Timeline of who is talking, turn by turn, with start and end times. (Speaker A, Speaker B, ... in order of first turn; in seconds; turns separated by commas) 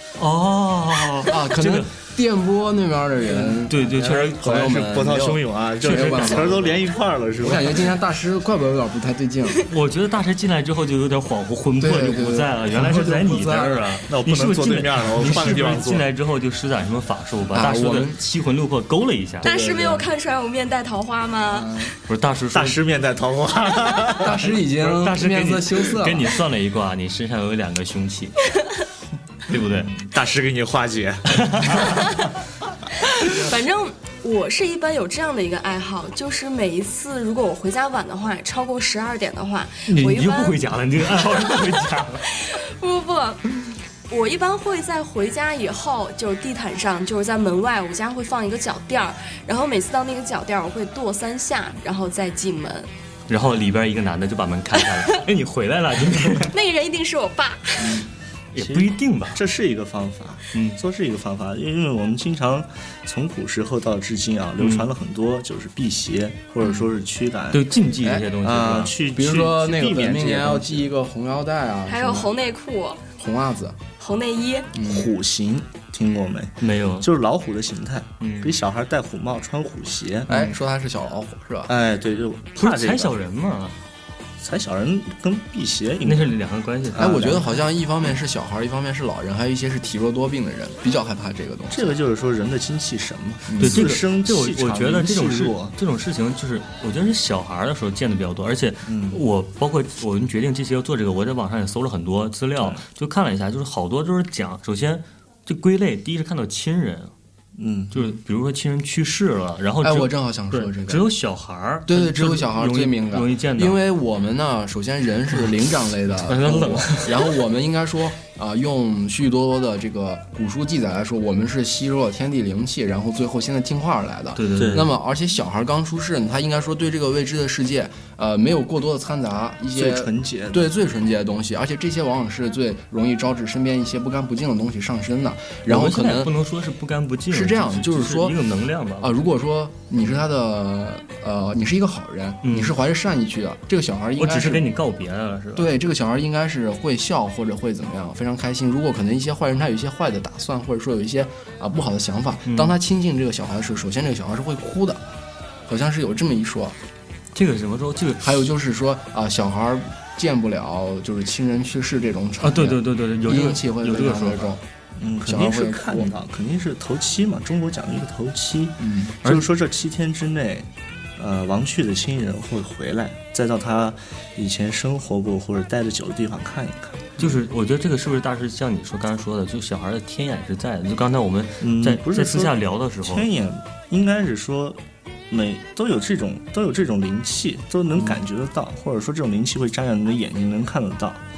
Speaker A: 0.2-1.9, Speaker B: 1.2-6.8, Speaker C: 3.3-8.0, Speaker A: 3.7-4.5, Speaker A: 5.8-6.7, Speaker B: 7.4-9.7, Speaker A: 9.7-19.5, Speaker B: 11.8-14.0, Speaker C: 14.1-16.1, Speaker B: 17.5-18.2, Speaker D: 19.4-21.9, Speaker B: 19.4-20.1, Speaker B: 21.5-21.9, Speaker A: 22.1-22.8, Speaker C: 22.5-24.5, Speaker B: 24.2-26.4, Speaker A: 24.7-28.4, Speaker A: 29.5-30.0, Speaker C: 29.8-32.1, Speaker A: 31.3-32.1, Speaker D: 33.2-41.7, Speaker A: 39.9-42.3, Speaker D: 42.3-52.9, Speaker A: 53.3-56.5, Speaker D: 56.4-58.0, Speaker C: 57.8-67.7, Speaker A: 58.5-59.4, Speaker A: 60.5-60.8, Speaker A: 64.6-64.9, Speaker A: 67.5-68.9, Speaker C: 68.4-70.9, Speaker B: 69.1-72.3, Speaker D: 71.9-73.0, Speaker B: 73.2-73.8, Speaker D: 74.0-74.7, Speaker B: 74.7-75.1, Speaker C: 74.8-80.5, Speaker A: 76.6-77.1, Speaker A: 78.2-78.5, Speaker B: 80.3-81.7, Speaker C: 81.7-83.1, Speaker A: 82.6-83.8, Speaker C: 84.4-86.3, Speaker A: 86.0-87.5, Speaker C: 86.9-87.5, Speaker B: 87.0-92.0, Speaker C: 91.7-95.7, Speaker B: 93.5-93.8, Speaker A: 93.6-107.1, Speaker C: 98.8-99.2, Speaker C: 107.6-108.1, Speaker A: 107.9-113.8, Speaker B: 109.8-111.1, Speaker B: 111.9-136.3, Speaker A: 116.2-117.3, Speaker A: 124.3-124.9, Speaker C: 124.6-124.9, Speaker C: 129.7-130.7, Speaker A: 135.7-139.2, Speaker B: 137.3-138.4, Speaker B: 139.0-144.7, Speaker A: 142.4-142.8, Speaker A: 144.2-145.7, Speaker B: 145.6-155.0, Speaker A: 152.4-152.8, Speaker B: 155.7-156.8, Speaker A: 157.3-158.4, Speaker B: 158.2-164.6, Speaker A: 162.4-164.5, Speaker C: 165.0-177.1, Speaker B: 165.2-166.1, Speaker B: 168.8-169.2, Speaker A: 177.2-183.3, Speaker C: 181.6-184.8, Speaker C: 185.3-191.2, Speaker A: 187.9-188.2